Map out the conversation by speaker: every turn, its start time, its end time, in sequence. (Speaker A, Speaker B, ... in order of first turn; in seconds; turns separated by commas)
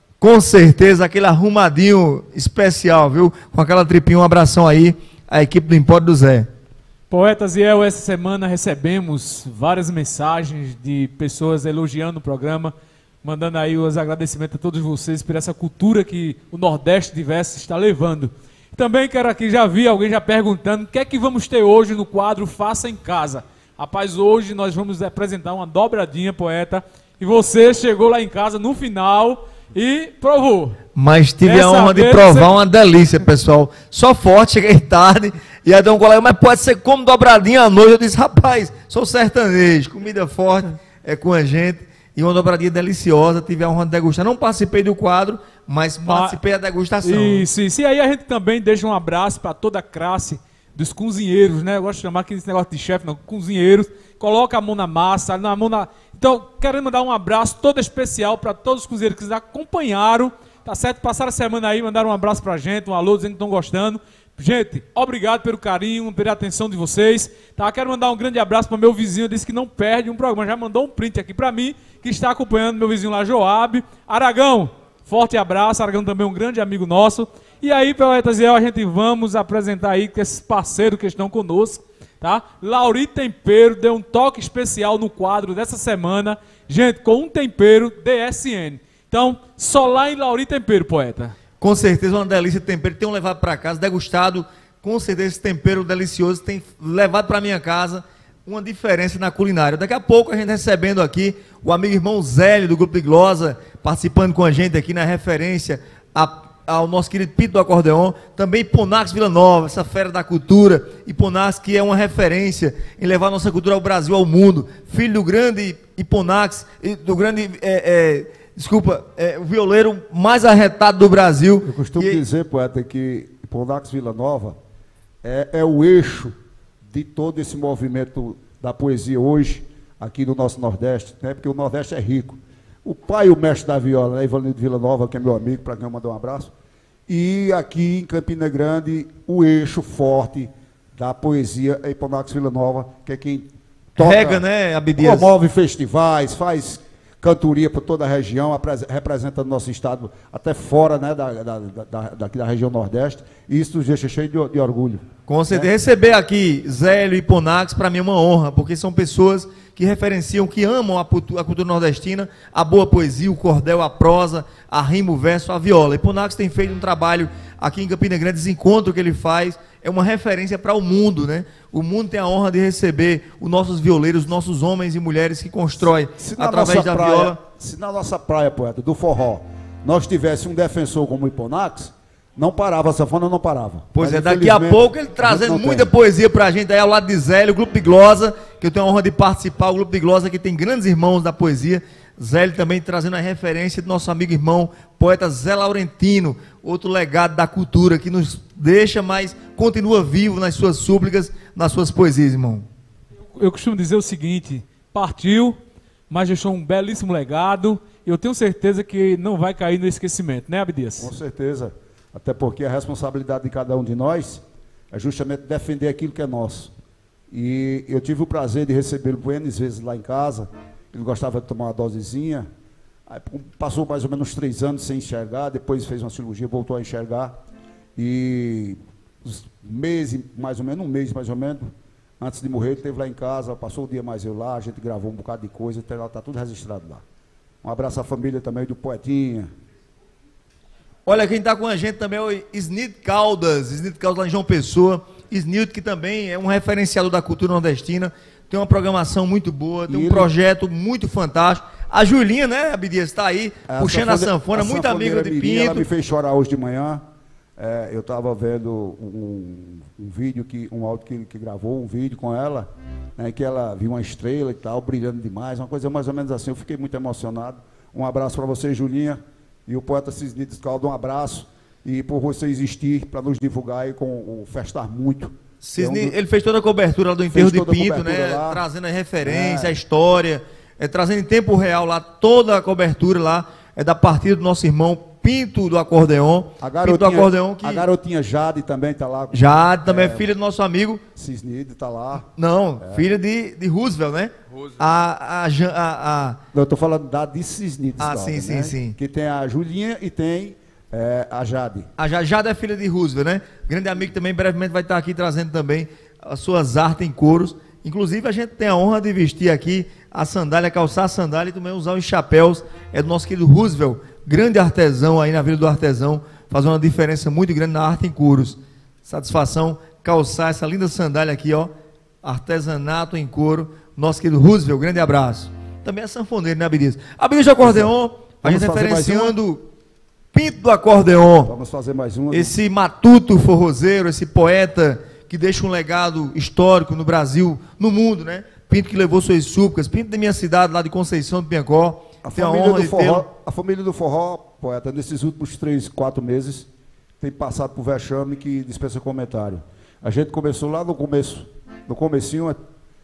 Speaker A: 0.2-6.5, Speaker B: 7.1-12.7, Speaker B: 13.2-30.8, Speaker A: 31.0-47.5, Speaker B: 31.4-32.5, Speaker B: 46.0-46.4, Speaker B: 47.0-91.4, Speaker A: 91.6-122.2, Speaker C: 121.6-124.6, Speaker C: 125.2-126.3, Speaker C: 126.9-136.5, Speaker C: 137.1-144.4, Speaker A: 144.0-145.3, Speaker C: 144.9-155.7, Speaker A: 155.3-177.4, Speaker C: 176.2-185.9, Speaker A: 184.0-202.7, Speaker B: 203.3-205.6, Speaker B: 206.1-211.1, Speaker C: 211.0-216.7, Speaker C: 217.3-222.5, Speaker C: 223.1-227.4, Speaker C: 228.0-237.0, Speaker C: 237.6-239.5, Speaker A: 241.1-255.9, Speaker C: 249.9-250.3, Speaker C: 253.7-257.0, Speaker C: 257.6-276.1, Speaker A: 275.6-287.9, Speaker C: 277.3-278.6, Speaker C: 279.2-279.8, Speaker C: 286.6-290.3, Speaker A: 289.3-291.0, Speaker C: 291.1-292.3, Speaker A: 292.4-296.4, Speaker C: 292.8-293.1, Speaker C: 296.5-301.9, Speaker A: 298.0-299.0, Speaker A: 302.0-321.7, Speaker A: 322.2-329.6, Speaker C: 327.6-329.4, Speaker A: 330.3-331.5, Speaker C: 331.4-332.6, Speaker A: 332.3-343.3, Speaker C: 342.2-346.7, Speaker C: 347.2-352.6